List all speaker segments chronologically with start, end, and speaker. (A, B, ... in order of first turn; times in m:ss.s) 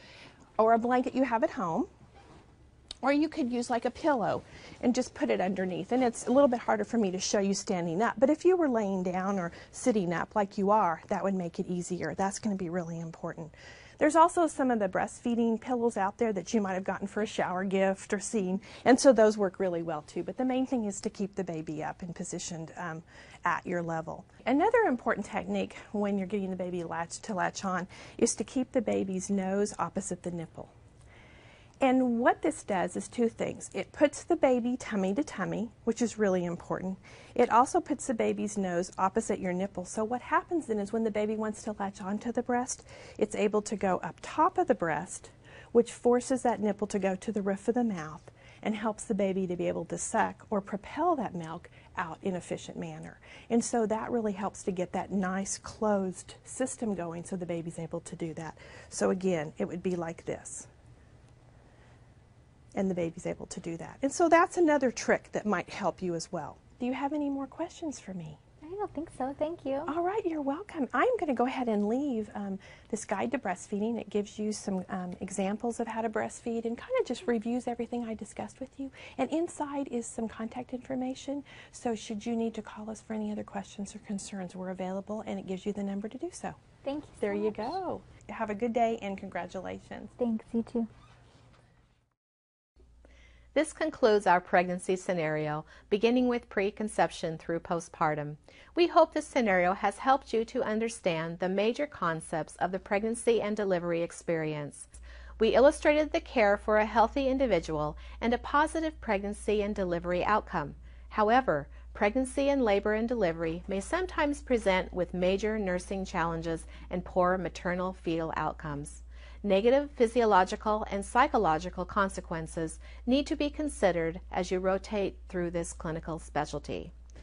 0:00.6-0:01.9 A
0:03.0-0:30.7 A
0:31.8-1:00.7 A
1:02.8-1:08.4 A
1:08.6-1:09.9 B
1:09.9-1:26.6 A
1:26.8-1:27.8 B
1:27.2-1:30.1 A
1:30.2-1:30.9 B
1:33.5-2:06.9 C